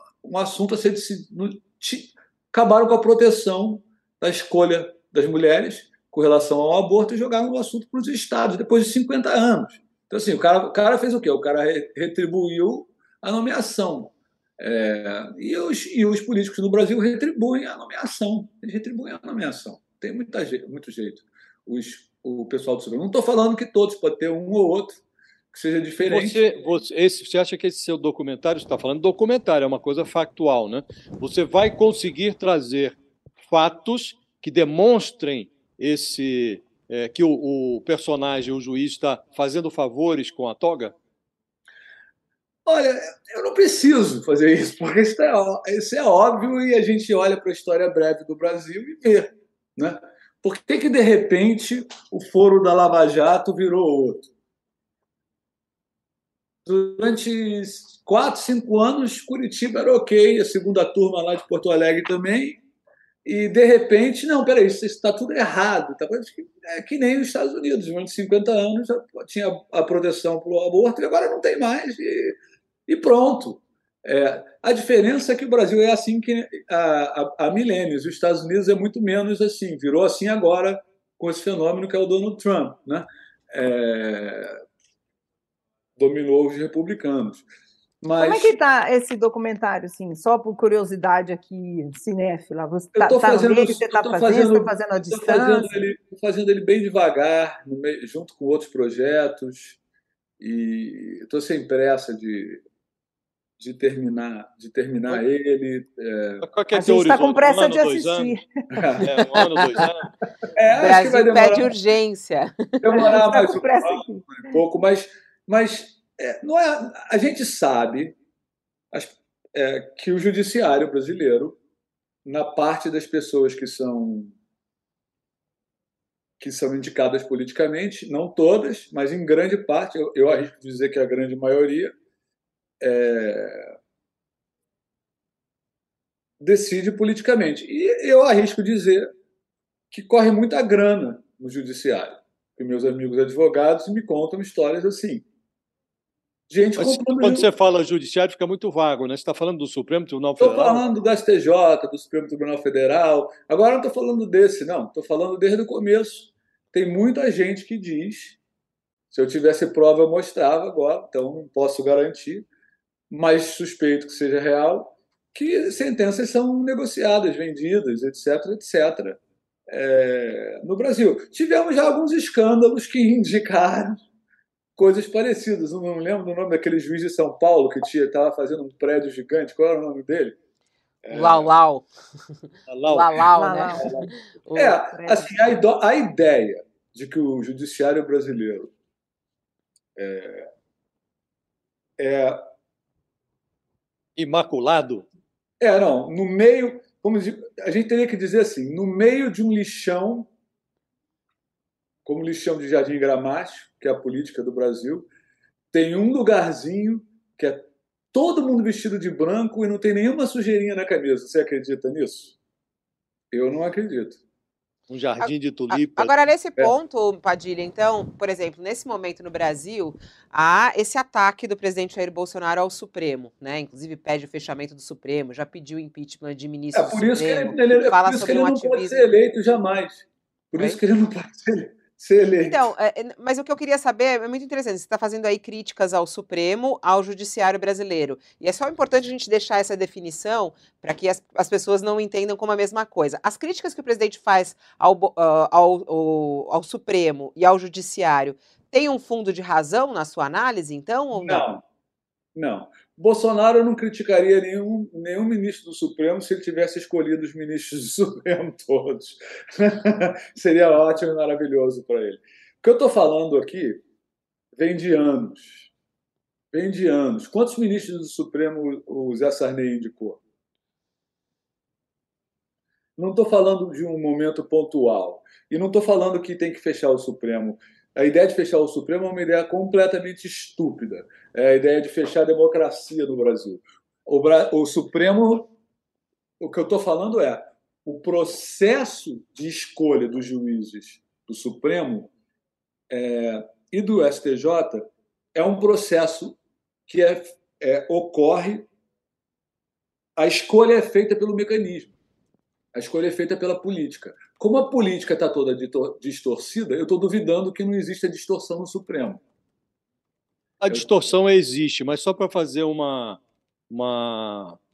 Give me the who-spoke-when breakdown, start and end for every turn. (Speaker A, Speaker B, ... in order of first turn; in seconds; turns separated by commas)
Speaker A: 0.2-26.5, Speaker B: 26.0-40.9, Speaker A: 42.7-54.3, Speaker A: 56.6-62.6, Speaker A: 63.2-84.6, Speaker A: 86.0-87.5, Speaker A: 88.0-88.6, Speaker C: 88.2-95.7, Speaker A: 93.0-99.8, Speaker A: 100.4-102.6, Speaker A: 103.6-106.5, Speaker B: 106.4-108.3, Speaker C: 106.7-108.8, Speaker A: 108.7-109.1, Speaker B: 109.0-110.1, Speaker A: 110.4-111.8, Speaker D: 110.7-112.8, Speaker A: 112.8-118.2, Speaker C: 112.9-114.3, Speaker A: 118.9-121.6, Speaker A: 122.2-124.3, Speaker A: 126.4-131.9, Speaker A: 132.8-133.7, Speaker A: 136.4-139.1, Speaker A: 139.9-145.3, Speaker A: 146.5-147.5, Speaker B: 146.8-150.8, Speaker A: 150.4-158.4, Speaker A: 159.1-162.5, Speaker A: 163.1-174.0, Speaker A: 174.8-180.4, Speaker A: 181.0-181.5, Speaker D: 181.1-181.9, Speaker B: 182.7-183.3, Speaker D: 182.9-184.8, Speaker C: 183.3-184.1, Speaker A: 183.8-188.7, Speaker C: 184.9-185.2, Speaker A: 190.0-190.5, Speaker A: 192.0-192.4, Speaker B: 194.2-195.1, Speaker A: 195.6-200.3, Speaker A: 202.1-205.1, Speaker A: 205.7-212.4, Speaker A: 213.3-214.2, Speaker B: 214.9-216.3, Speaker D: 215.2-229.1, Speaker A: 226.7-232.7, Speaker D: 232.4-251.5, Speaker A: 251.1-251.6, Speaker A: 252.3-263.8, Speaker A: 264.6-265.7, Speaker A: 266.5-270.2, Speaker A: 273.0-285.5, Speaker A: 286.4-292.1, Speaker A: 292.9-298.7, Speaker A: 300.2-301.9, Speaker A: 302.7-309.2, Speaker B: 310.6-314.6